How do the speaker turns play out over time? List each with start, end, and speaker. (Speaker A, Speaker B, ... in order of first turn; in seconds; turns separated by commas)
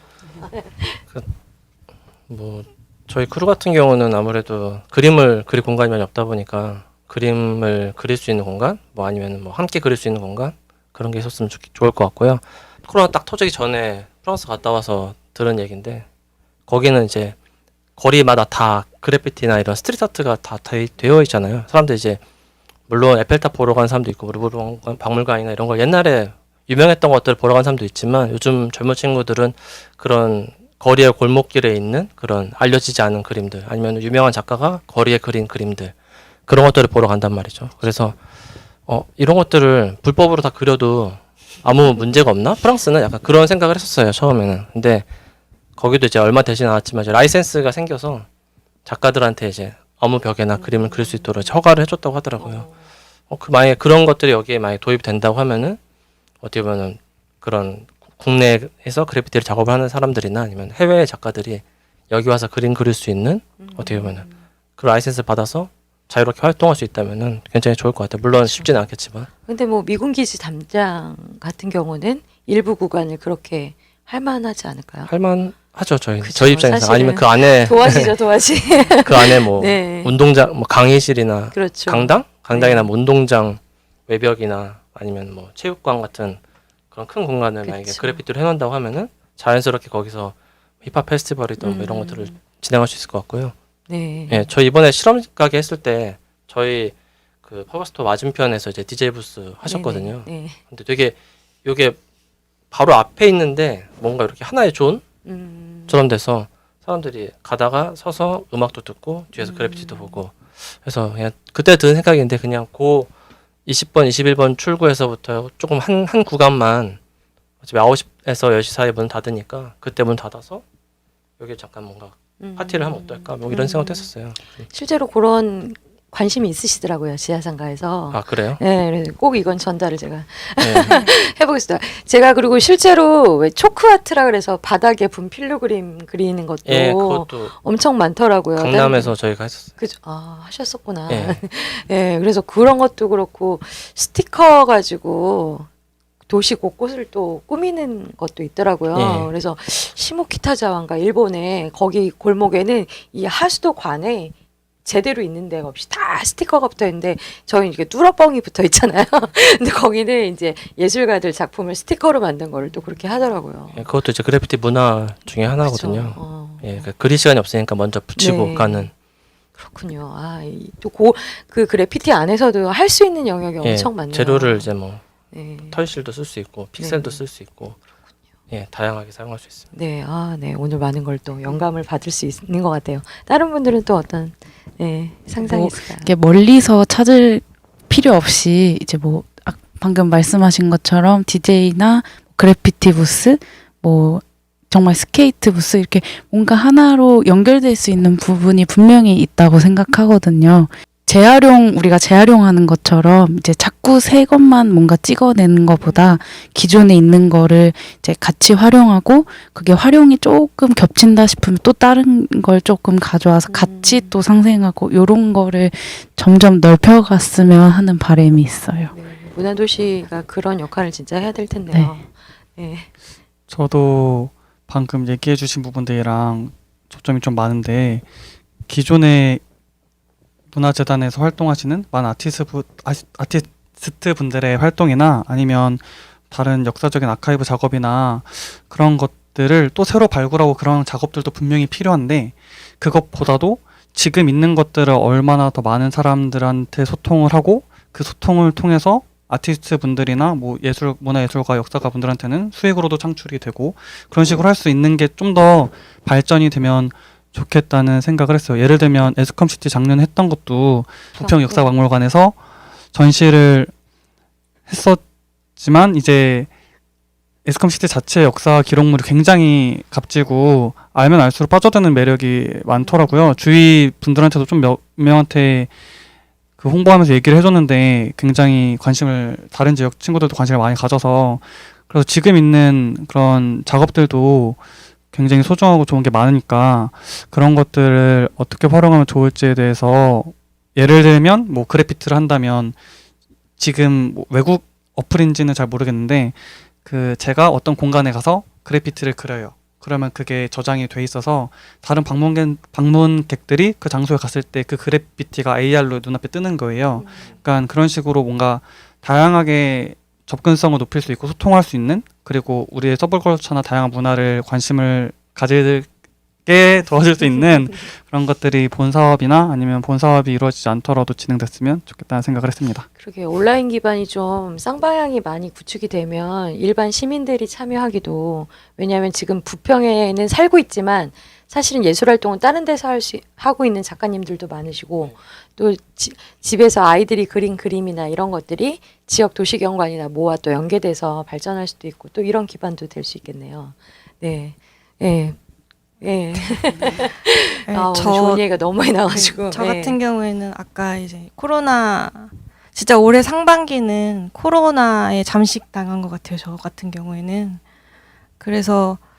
Speaker A: 0.3-1.0, Speaker B: 2.3-16.1, Speaker B: 16.7-17.4, Speaker B: 18.0-22.2, Speaker B: 22.9-35.9, Speaker B: 36.5-38.2, Speaker B: 38.9-45.0, Speaker B: 45.8-48.2, Speaker B: 48.9-52.7, Speaker A: 50.6-51.2, Speaker A: 52.4-52.8, Speaker B: 53.3-55.8, Speaker B: 56.4-64.2, Speaker A: 63.6-64.4, Speaker B: 64.8-69.3, Speaker A: 69.5-75.1, Speaker B: 75.1-78.1, Speaker A: 76.2-80.1, Speaker B: 79.0-86.4, Speaker A: 81.5-82.9, Speaker B: 86.9-93.5, Speaker A: 87.6-88.2, Speaker A: 91.6-92.4, Speaker A: 93.9-94.5, Speaker B: 94.3-102.0, Speaker A: 99.6-100.6, Speaker B: 102.7-105.0, Speaker A: 105.2-106.0, Speaker B: 105.9-113.1, Speaker A: 109.4-110.2, Speaker B: 113.7-117.0, Speaker B: 117.6-120.6, Speaker B: 121.4-124.6, Speaker A: 122.4-124.1, Speaker A: 124.7-139.1, Speaker B: 128.1-128.6, Speaker B: 130.6-131.1, Speaker B: 136.7-137.5, Speaker B: 138.6-139.8, Speaker A: 139.8-145.7, Speaker B: 141.1-141.4, Speaker A: 146.3-154.3, Speaker B: 148.9-149.3, Speaker A: 154.8-163.8, Speaker B: 163.7-168.9, Speaker A: 165.6-166.9, Speaker A: 168.2-168.9, Speaker A: 169.6-174.7, Speaker B: 173.6-175.0, Speaker A: 175.3-175.8, Speaker B: 175.7-177.8, Speaker A: 176.8-177.2, Speaker B: 178.5-179.7, Speaker A: 179.7-186.1, Speaker C: 185.4-218.9, Speaker A: 205.8-206.2, Speaker A: 213.5-214.2, Speaker A: 218.9-222.9, Speaker D: 223.5-228.1, Speaker D: 228.7-229.4, Speaker D: 230.5-262.4, Speaker A: 261.1-261.7, Speaker D: 262.9-263.7, Speaker D: 264.7-265.0, Speaker D: 265.6-266.5, Speaker D: 267.4-275.7, Speaker A: 272.8-273.1, Speaker D: 276.6-284.6, Speaker D: 285.1-292.8, Speaker D: 293.6-315.9, Speaker A: 307.0-307.3, Speaker D: 316.4-322.9, Speaker A: 323.0-345.4, Speaker A: 346.0-350.0, Speaker E: 346.4-347.1, Speaker E: 347.7-348.5, Speaker E: 349.1-357.6, Speaker E: 358.4-359.0